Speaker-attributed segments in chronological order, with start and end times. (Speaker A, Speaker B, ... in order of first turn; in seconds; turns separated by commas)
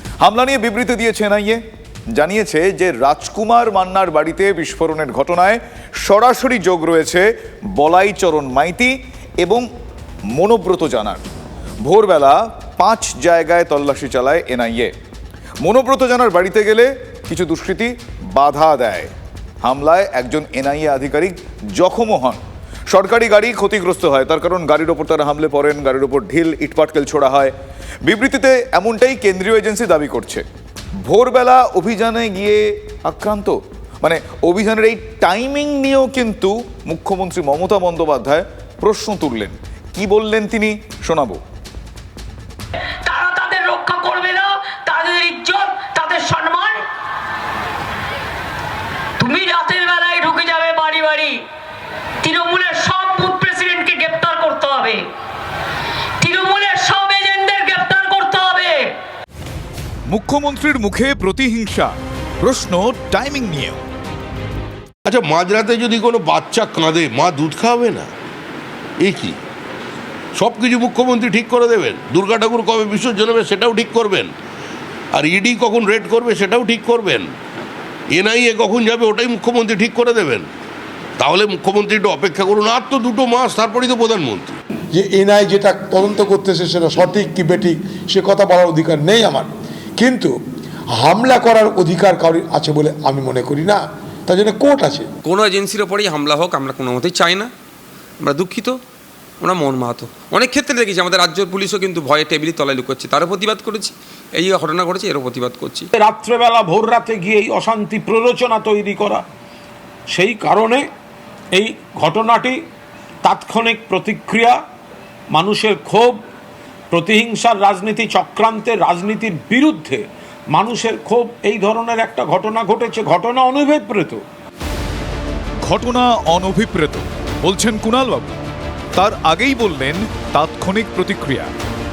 Speaker A: 0.2-9.7, Speaker A: 10.3-11.3, Speaker A: 11.8-14.9, Speaker A: 15.6-19.1, Speaker A: 19.6-27.5, Speaker A: 28.1-30.4, Speaker A: 31.0-41.4, Speaker B: 43.0-46.8, Speaker B: 49.2-51.4, Speaker B: 52.2-55.0, Speaker B: 56.2-58.9, Speaker A: 60.1-63.8, Speaker C: 65.1-68.1, Speaker C: 69.0-69.3, Speaker C: 70.4-74.3, Speaker C: 75.1-77.3, Speaker C: 78.1-80.5, Speaker C: 81.2-84.5, Speaker D: 84.9-90.3, Speaker D: 91.0-95.1, Speaker E: 95.2-97.5, Speaker E: 98.2-98.8, Speaker E: 99.4-105.9, Speaker F: 106.0-109.2, Speaker F: 110.1-110.9, Speaker F: 111.5-112.6, Speaker F: 113.2-114.6, Speaker F: 115.3-116.2, Speaker F: 116.9-124.2, Speaker A: 125.6-128.4, Speaker A: 129.0-131.5